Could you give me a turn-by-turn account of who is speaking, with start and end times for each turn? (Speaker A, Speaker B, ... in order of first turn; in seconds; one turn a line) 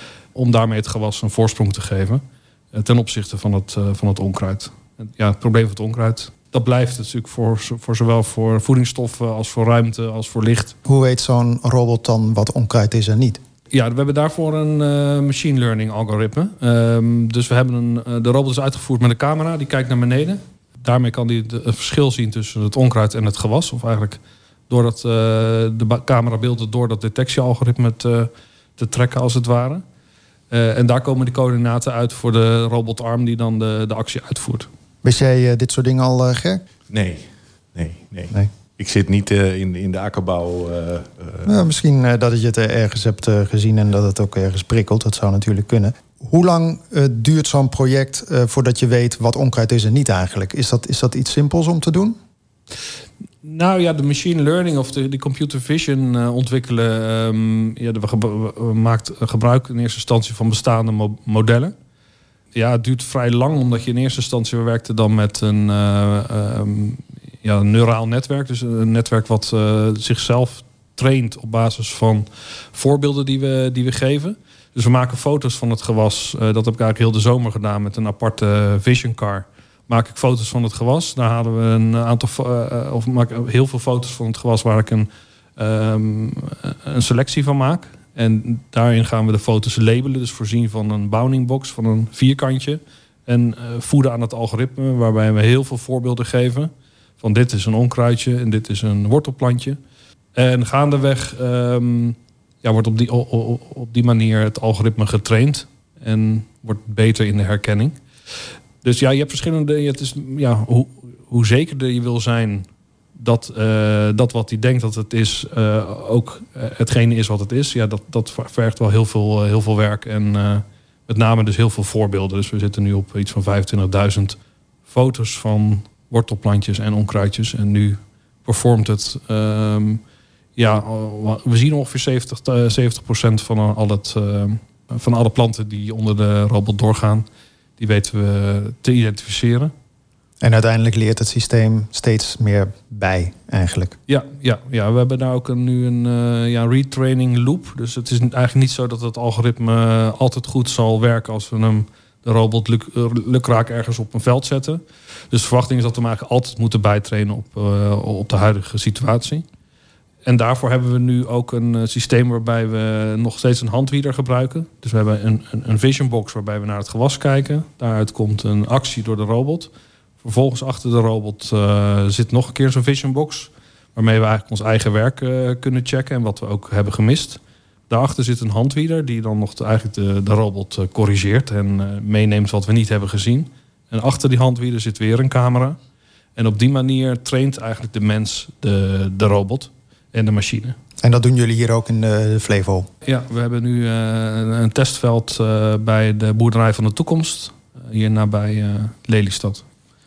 Speaker A: 0.3-10.8
Speaker B: 10.8-13.4
Speaker A: 13.7-29.8
Speaker A: 30.5-34.7
Speaker B: 35.0-36.6
Speaker C: 36.9-41.5
Speaker B: 41.5-52.2
Speaker A: 53.4-61.8
Speaker A: 62.5-99.8
Speaker A: 100.3-108.0
Speaker A: 108.8-124.4
Speaker A: 124.9-130.0
Speaker A: 130.6-137.3
Speaker A: 137.8-139.7
Speaker B: 140.4-144.0
Speaker A: 144.1-159.5
Speaker A: 160.2-169.7
Speaker A: 170.2-185.8
Speaker A: 186.4-190.8
Speaker B: 191.0-192.9
Speaker A: 193.1-199.7